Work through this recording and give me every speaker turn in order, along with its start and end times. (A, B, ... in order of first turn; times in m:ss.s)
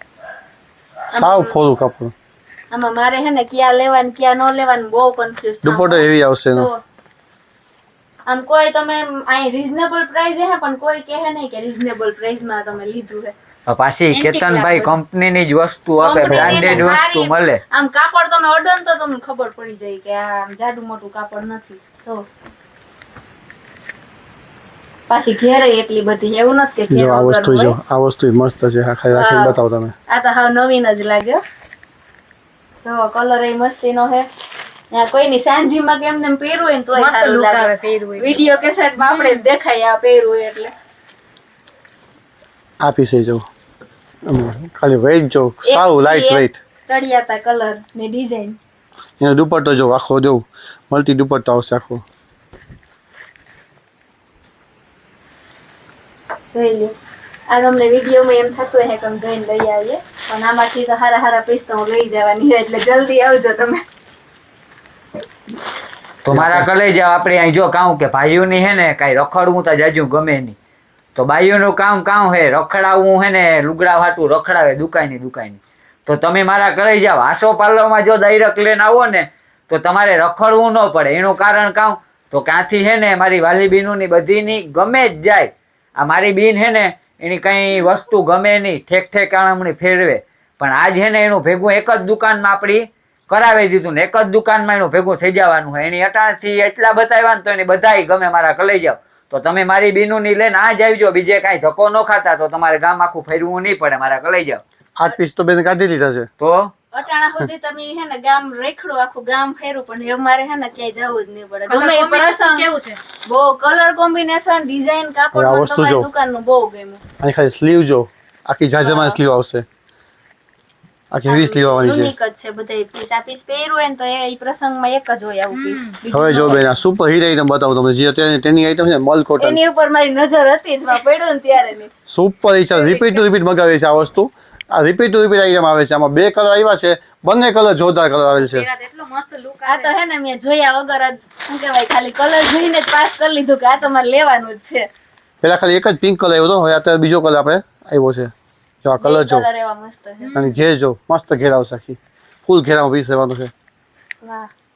0:01.1-0:02.1 A
0:01.1-0:01.6 B
0:02.7-0:06.8 B
0:05.6-0:06.7 A
0:08.3-0:13.3 B
0:13.7-0:17.6 C
0:14.2-0:14.7 D
0:14.3-0:14.9 B
0:16.0-0:22.3 B
0:16.2-0:16.9 A
0:25.1-0:27.8 B
0:26.9-0:29.9 A
0:29.1-0:31.4 B
0:32.8-0:34.3 B
0:34.9-0:40.7 B
0:37.0-0:38.4 D
0:39.0-0:39.5 D
0:42.8-0:43.5 A
0:44.3-0:46.6 A
0:45.6-0:48.6 B
0:49.2-0:52.0 A
0:56.5-0:56.9 B
0:57.5-1:03.8 B
1:06.2-1:10.6 C
1:06.3-1:06.7 A
1:11.2-1:44.6 C
1:45.0-1:46.3 A
1:46.4-1:46.7 C
1:46.9-1:52.7 B
1:51.7-1:53.0 D
1:53.2-1:57.0 B
1:55.3-1:56.1 A
1:57.2-1:59.7 A
2:01.1-2:02.1 A
2:01.3-2:06.6 B
2:05.5-2:06.0 D
2:06.1-2:09.6 A
2:09.4-2:11.9 B
2:12.1-2:18.7 A
2:18.4-2:20.0 D
2:19.6-2:24.9 B
2:25.4-2:28.3 A
2:28.8-2:29.5 A
2:29.0-2:30.3 B
2:30.2-2:30.6 D
2:30.3-2:33.5 A
2:34.2-2:34.5 B